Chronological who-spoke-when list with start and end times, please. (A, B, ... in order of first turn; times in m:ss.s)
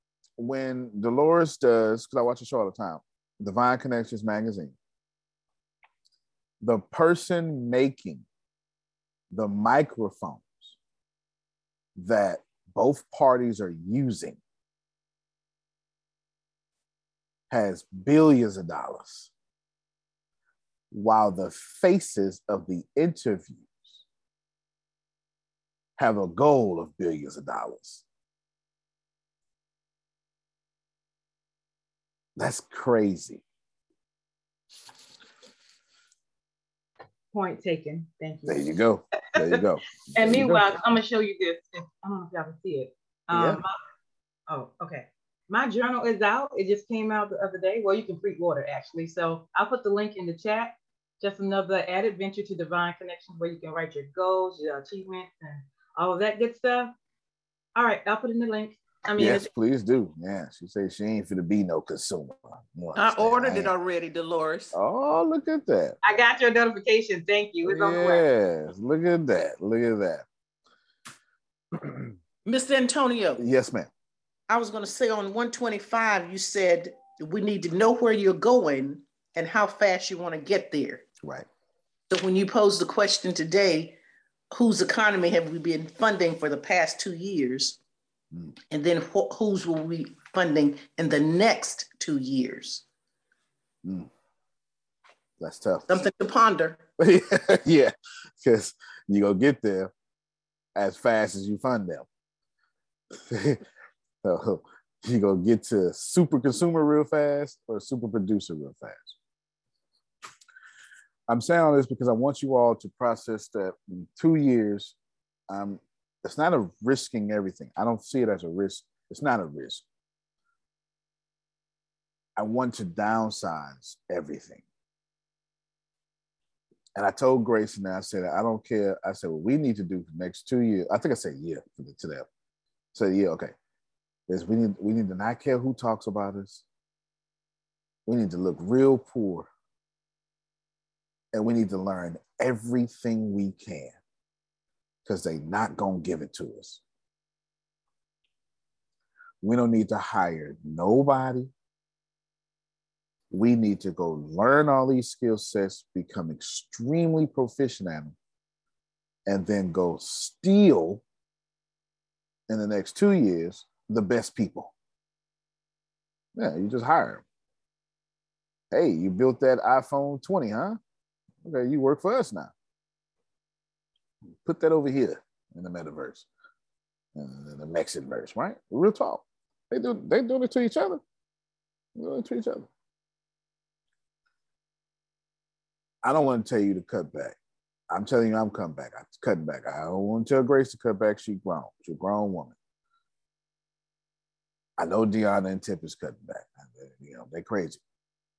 0:00.4-0:04.7 A
0:06.6-0:08.2 A
0:09.3-0:10.8 A
0:12.0-0:14.4 A
0:17.5-0:19.3 A
0:20.9-0:24.0 A
0:26.0-0:28.0 A
0:32.4-0:33.4 A
0:37.3-0:38.7 B
0:38.4-0:40.8 A
0:39.4-0:43.7 B
0:43.3-0:43.6 A
0:44.5-0:56.9 B
0:57.7-0:59.5 B
0:59.2-1:03.7 A
1:03.0-1:04.7 C
1:04.7-1:06.0 A
1:06.0-1:08.2 B
1:07.6-1:10.2 A
1:12.4-1:13.4 C
1:13.4-1:13.9 A
1:14.5-1:21.0 C
1:22.1-1:24.0 C
1:24.5-1:27.8 C
1:28.7-1:32.8 C
1:33.8-1:34.1 A
1:35.4-1:36.0 A
1:35.9-1:36.8 C
1:37.0-1:39.9 A
1:40.7-1:42.1 A
1:43.2-1:43.6 A
1:44.2-1:49.2 A
1:51.3-1:54.9 A
1:55.5-1:59.8 A
2:02.4-2:04.6 A
2:07.0-2:12.3 A
2:12.9-2:13.5 A
2:14.3-2:16.6 A
2:18.0-2:19.5 A
2:21.3-2:24.0 A
2:25.0-2:26.8 A
2:29.4-2:31.5 A
2:33.3-2:38.1 A
2:39.2-2:41.0 A
2:42.5-2:44.7 A
2:46.3-2:47.2 A
2:48.7-2:50.8 A
2:51.4-2:52.5 A
2:54.4-2:56.3 A
2:57.1-3:01.0 A
3:01.9-3:02.7 A
3:06.0-3:07.4 A
3:07.9-3:12.5 A
3:14.8-3:17.8 A